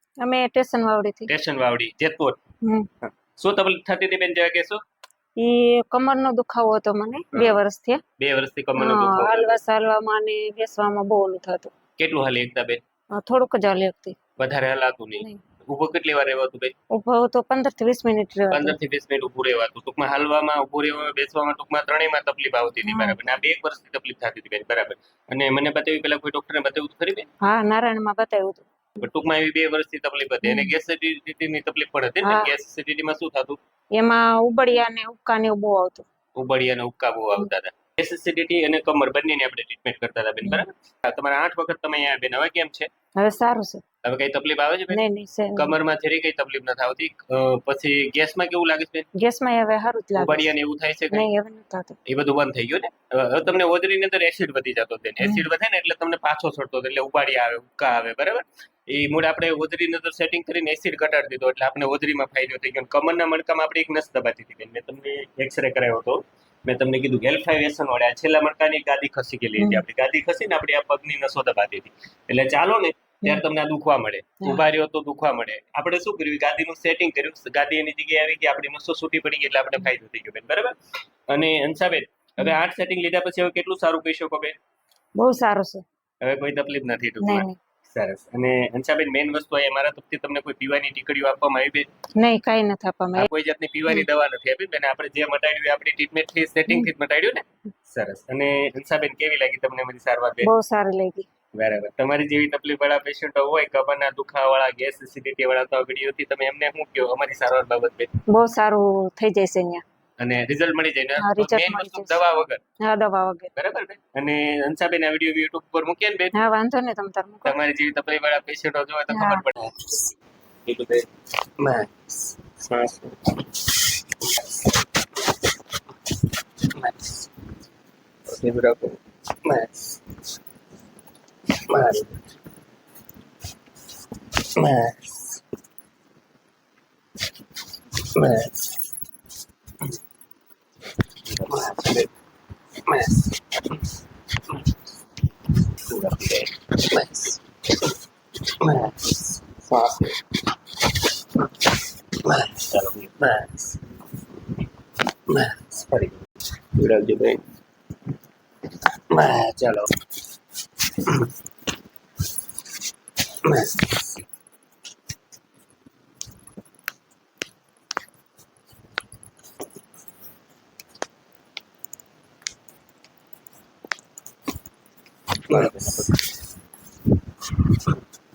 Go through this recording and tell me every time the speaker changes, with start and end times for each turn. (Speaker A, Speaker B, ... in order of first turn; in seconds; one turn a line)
Speaker A: 0.2-1.3
Speaker B: 1.3-2.4
Speaker A: 2.6-2.9
Speaker B: 3.0-4.8
Speaker A: 5.3-8.0
Speaker B: 7.3-7.6
Speaker B: 8.2-9.6
Speaker A: 8.8-11.7
Speaker B: 12.0-12.8
Speaker A: 13.1-14.2
Speaker B: 14.3-16.7
Speaker A: 15.2-15.4
Speaker A: 16.9-18.8
Speaker B: 18.5-27.3
Speaker A: 22.8-23.2
Speaker A: 27.4-28.7
Speaker B: 29.0-33.6
Speaker A: 30.4-30.8
Speaker A: 32.2-32.5
Speaker A: 33.9-36.0
Speaker B: 36.4-42.9
Speaker A: 43.1-43.8
Speaker B: 44.0-45.0
Speaker A: 44.9-45.8
Speaker B: 45.5-49.1
Speaker A: 49.1-50.5
Speaker B: 50.1-51.3
Speaker A: 51.1-52.0
Speaker B: 52.0-80.8
Speaker A: 55.2-55.5
Speaker A: 69.6-69.8
Speaker B: 81.3-84.5
Speaker A: 85.2-85.8
Speaker B: 86.2-91.9
Speaker A: 87.2-87.6
Speaker A: 92.2-93.3
Speaker B: 93.1-100.5
Speaker A: 96.7-96.9
Speaker A: 100.4-101.3
Speaker B: 101.5-108.1
Speaker A: 108.3-109.8
Speaker B: 110.2-112.6
Speaker A: 111.2-112.2
Speaker A: 112.8-113.5
Speaker B: 113.5-116.4
Speaker A: 116.3-117.6
Speaker B: 117.4-120.1
Speaker A: 119.1-119.5
Speaker B: 120.7-125.3
Speaker B: 126.1-127.3
Speaker B: 128.3-130.0
Speaker B: 131.7-132.3
Speaker B: 134.4-135.4
Speaker B: 138.0-138.9
Speaker B: 141.3-142.1
Speaker B: 142.8-144.8
Speaker B: 145.8-150.2
Speaker B: 150.8-153.9
Speaker B: 155.3-156.2
Speaker B: 156.7-157.5
Speaker B: 159.1-159.9
Speaker B: 160.9-161.3
Speaker B: 163.4-164.2
Speaker B: 175.5-176.4
Speaker B: 177.5-178.0